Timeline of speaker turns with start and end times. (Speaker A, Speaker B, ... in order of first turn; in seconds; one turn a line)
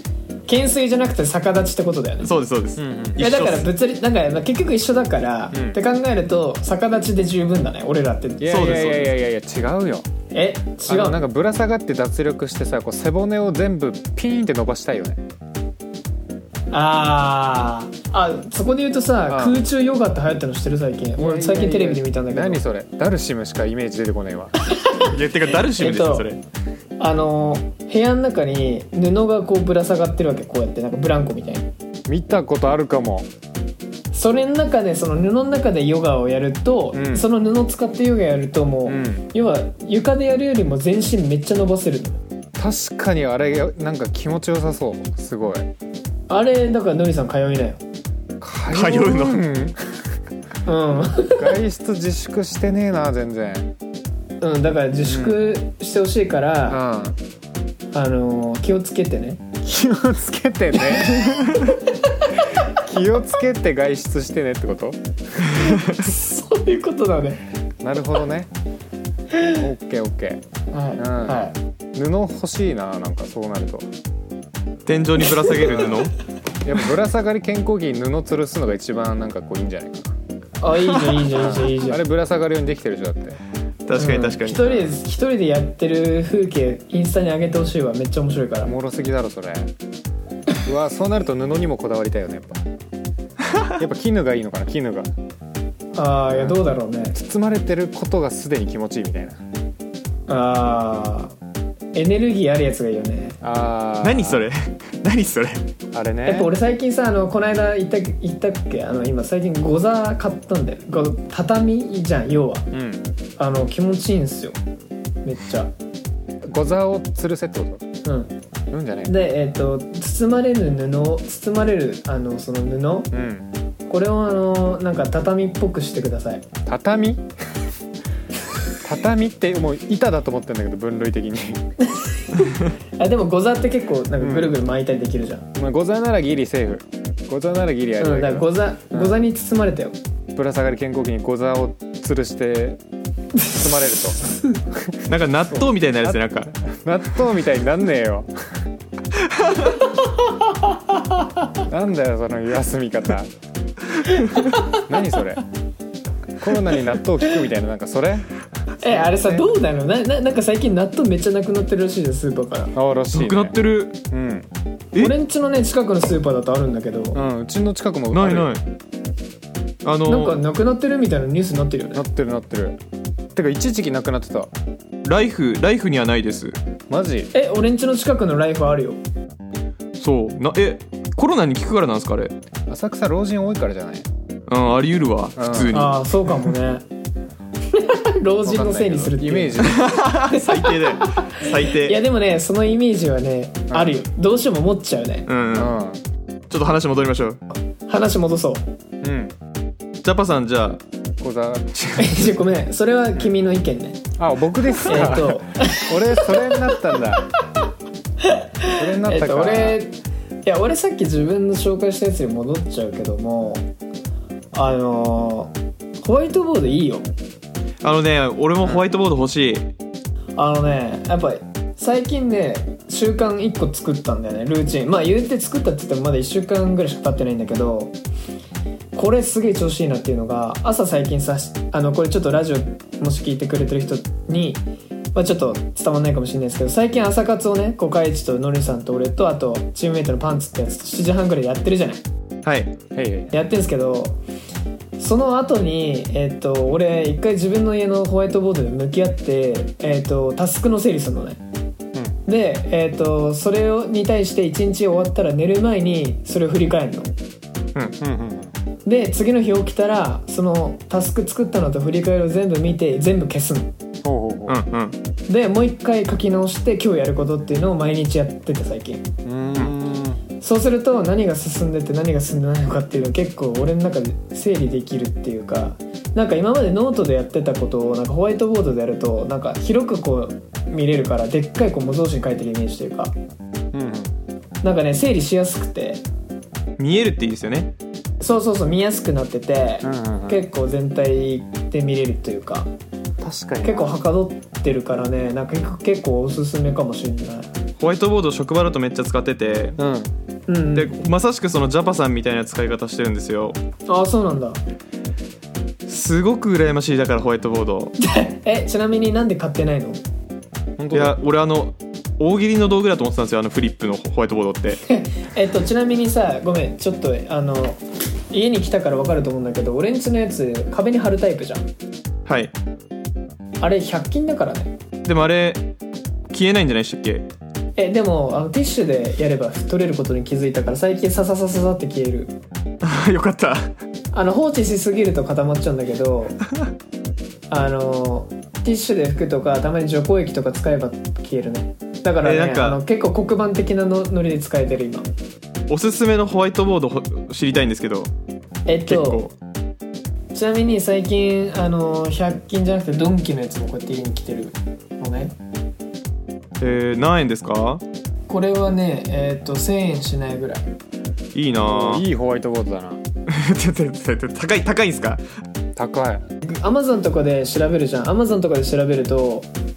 Speaker A: 0.5-2.3
Speaker B: 2.2-3.7
Speaker C: 2.8-3.2
Speaker A: 3.2-8.9
Speaker C: 5.5-5.8
Speaker C: 8.4-10.1
Speaker B: 8.5-9.1
Speaker A: 10.3-11.2
Speaker C: 10.9-15.2
Speaker A: 16.7-22.6
Speaker C: 19.3-19.6
Speaker C: 21.2-24.5
Speaker A: 24.6-26.3
Speaker B: 25.1-26.4
Speaker A: 27.0-31.7
Speaker C: 32.1-33.3
Speaker A: 34.1-42.2
Speaker C: 36.9-37.3
Speaker C: 38.9-39.2
Speaker C: 42.6-45.7
Speaker A: 46.3-47.8
Speaker C: 48.4-50.0
Speaker B: 48.7-49.4
Speaker A: 50.6-51.5
Speaker C: 51.3-53.7
Speaker A: 54.4-56.8
Speaker C: 55.0-55.5
Speaker C: 56.7-57.2
Speaker A: 57.9-59.4
Speaker C: 59.6-61.4
Speaker C: 62.5-65.5
Speaker A: 65.5-67.4
Speaker B: 65.7-66.0
Speaker C: 67.8-68.5
Speaker C: 69.5-70.4
Speaker A: 70.7-71.5
Speaker C: 71.0-71.4
Speaker C: 71.9-73.9
Speaker B: 74.8-76.1
Speaker C: 75.7-76.0
Speaker C: 76.6-80.1
Speaker A: 80.6-82.0
Speaker C: 81.3-83.4
Speaker B: 83.8-84.9
Speaker A: 83.9-88.7
Speaker C: 88.6-89.7
Speaker C: 90.6-92.6
Speaker C: 93.8-95.1
Speaker A: 95.9-97.2
Speaker C: 96.3-96.6
Speaker C: 97.1-99.4
Speaker A: 100.3-101.3
Speaker A: 101.9-103.4
Speaker C: 103.4-104.4
Speaker B: 104.0-105.6
Speaker C: 105.9-106.5
Speaker A: 106.2-112.7
Speaker C: 112.7-113.0
Speaker A: 113.4-114.5
Speaker A: 115.2-115.7
Speaker C: 116.4-117.8
Speaker A: 118.0-118.3
Speaker C: 118.7-119.1
Speaker A: 119.0-123.1
Speaker C: 123.1-123.5
Speaker A: 123.9-126.5
Speaker C: 126.7-127.3
Speaker C: 128.8-131.7
Speaker A: 131.9-135.5
Speaker C: 134.2-134.5
Speaker C: 135.5-139.2
Speaker A: 138.0-139.9
Speaker C: 140.3-142.8
Speaker A: 143.4-143.6
Speaker C: 143.5-148.6
Speaker A: 144.2-144.5
Speaker B: 145.0-146.5
Speaker B: 149.3-149.7
Speaker A: 150.2-151.5
Speaker C: 151.6-153.3
Speaker A: 154.0-154.8
Speaker C: 154.7-155.4
Speaker C: 156.4-159.5
Speaker A: 158.8-162.7
Speaker C: 162.7-163.6
Speaker B: 163.1-164.0
Speaker C: 164.1-164.5
Speaker A: 165.0-167.2
Speaker C: 167.1-168.5
Speaker B: 168.1-168.6
Speaker B: 169.8-170.4
Speaker A: 170.1-172.0
Speaker C: 171.9-172.8
Speaker C: 173.3-174.5
Speaker B: 175.0-176.6
Speaker C: 176.9-177.3
Speaker A: 177.3-179.0
Speaker B: 180.0-182.3
Speaker C: 182.7-184.1
Speaker B: 184.5-186.0
Speaker C: 185.4-185.8
Speaker A: 185.7-186.8
Speaker A: 187.7-195.2
Speaker C: 188.4-190.1
Speaker B: 189.6-192.0
Speaker C: 193.7-193.9
Speaker B: 195.3-195.8
Speaker C: 195.5-196.0
Speaker B: 196.5-197.4
Speaker A: 197.9-198.6
Speaker C: 199.0-199.3
Speaker B: 200.0-200.8
Speaker C: 201.2-202.3
Speaker A: 202.0-204.0
Speaker C: 204.2-207.3
Speaker A: 204.8-206.8
Speaker A: 208.2-213.7
Speaker C: 208.8-209.8
Speaker A: 214.5-217.1
Speaker B: 217.8-219.7
Speaker A: 220.4-227.9
Speaker A: 228.9-234.6
Speaker A: 235.1-242.0
Speaker B: 242.4-242.7
Speaker C: 242.9-243.3
Speaker A: 243.3-244.2
Speaker A: 245.0-251.4
Speaker A: 252.2-257.1
Speaker C: 258.0-258.5
Speaker A: 258.9-263.7
Speaker C: 264.0-264.6
Speaker B: 264.5-264.9
Speaker A: 265.3-269.0
Speaker C: 269.2-270.2
Speaker A: 270.4-283.1
Speaker C: 283.7-284.1
Speaker A: 284.6-286.0
Speaker B: 286.8-287.7
Speaker A: 288.2-292.7
Speaker C: 289.8-290.4
Speaker C: 293.2-294.0
Speaker A: 293.6-297.5
Speaker B: 297.8-299.8
Speaker C: 299.8-300.1
Speaker A: 300.5-301.0
Speaker B: 300.7-303.6
Speaker A: 303.9-304.6
Speaker B: 305.9-307.9
Speaker A: 308.0-310.0
Speaker C: 310.8-311.2
Speaker B: 310.9-314.8
Speaker A: 314.9-321.6
Speaker B: 322.2-322.5
Speaker A: 323.6-324.7
Speaker B: 325.0-325.7
Speaker B: 326.3-327.3
Speaker A: 327.8-332.3
Speaker B: 332.8-333.7
Speaker A: 334.1-336.4
Speaker A: 337.5-345.1
Speaker B: 342.2-342.8
Speaker B: 345.7-348.1
Speaker A: 348.7-349.3
Speaker B: 348.9-349.3
Speaker A: 350.3-355.3
Speaker B: 356.6-357.8
Speaker A: 358.3-360.7
Speaker B: 361.3-362.0
Speaker C: 361.6-363.0
Speaker B: 363.3-365.2
Speaker C: 365.8-366.2
Speaker A: 366.4-369.5